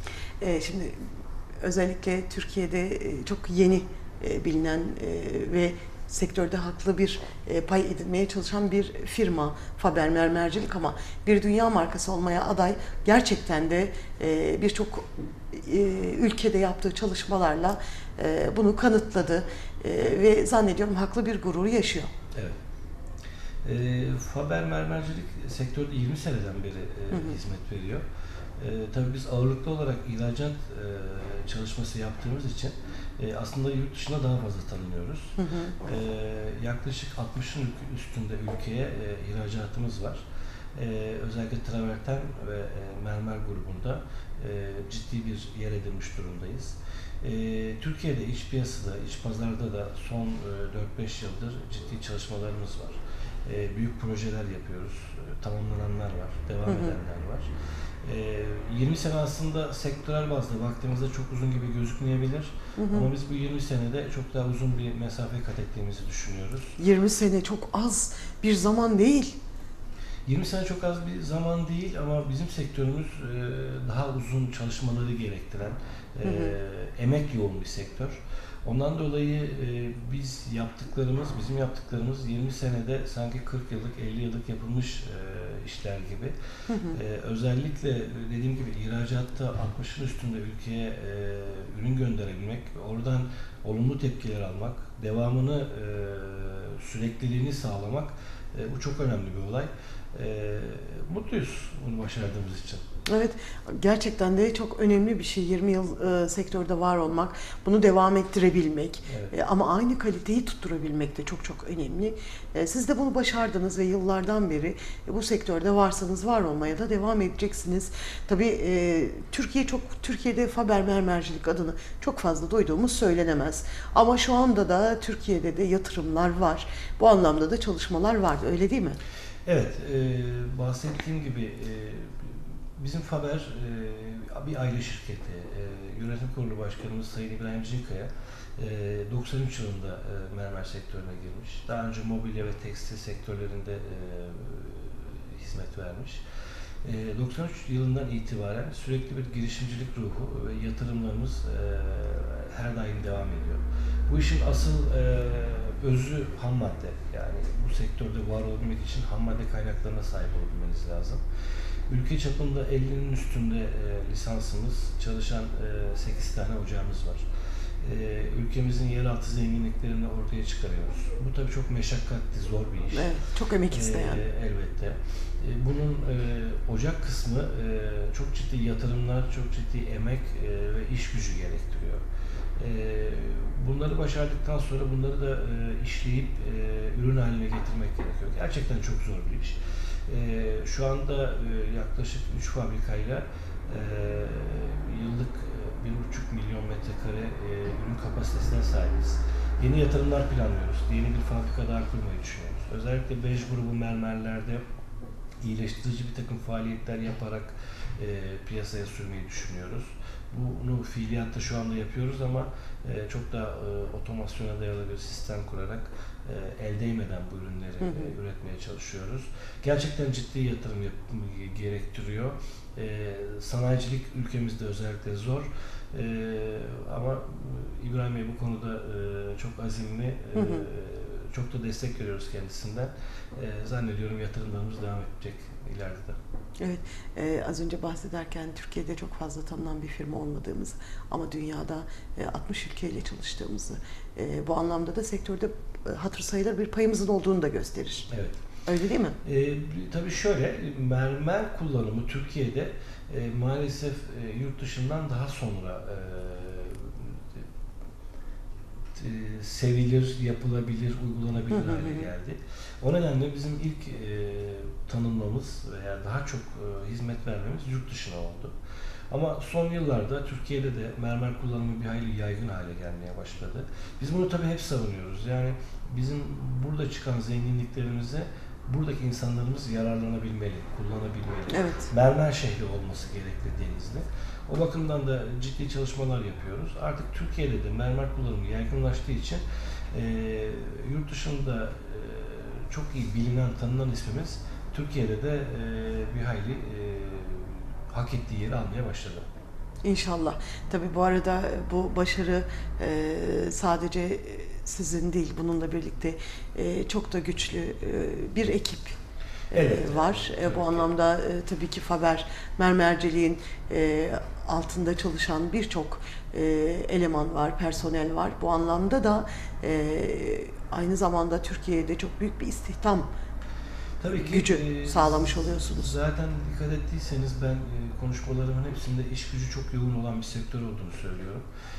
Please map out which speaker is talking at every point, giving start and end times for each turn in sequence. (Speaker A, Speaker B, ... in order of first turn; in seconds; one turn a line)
Speaker A: 0.4-1.0
Speaker A: 1.6-22.1
Speaker B: 23.6-28.0
Speaker A: 27.1-27.4
Speaker B: 28.6-40.2
Speaker A: 35.4-35.8
Speaker B: 40.8-57.5
Speaker A: 56.7-57.0
Speaker B: 58.0-66.8
Speaker A: 62.8-63.1
Speaker A: 66.8-69.4
Speaker B: 70.3-86.3
Speaker A: 76.2-76.5
Speaker A: 86.7-87.0
Speaker B: 86.9-102.8
Speaker A: 103.1-129.0
Speaker B: 109.1-109.3
Speaker B: 129.5-146.2
Speaker B: 146.8-161.2
Speaker B: 161.9-167.3
Speaker B: 167.8-173.1
Speaker A: 172.9-174.2
Speaker B: 173.7-182.0
Speaker B: 182.6-204.6
Speaker B: 205.4-236.2
Speaker A: 217.8-218.1
Speaker A: 230.3-230.7
Speaker A: 236.6-248.1
Speaker B: 248.1-248.4
Speaker A: 248.7-249.2
Speaker B: 249.2-257.4
Speaker B: 258.9-268.6
Speaker A: 261.5-262.1
Speaker B: 269.1-289.4
Speaker A: 281.5-281.9
Speaker B: 289.9-299.2
Speaker A: 299.8-309.0
Speaker B: 309.5-310.9
Speaker A: 309.5-323.1
Speaker B: 324.0-331.5
Speaker A: 324.1-326.0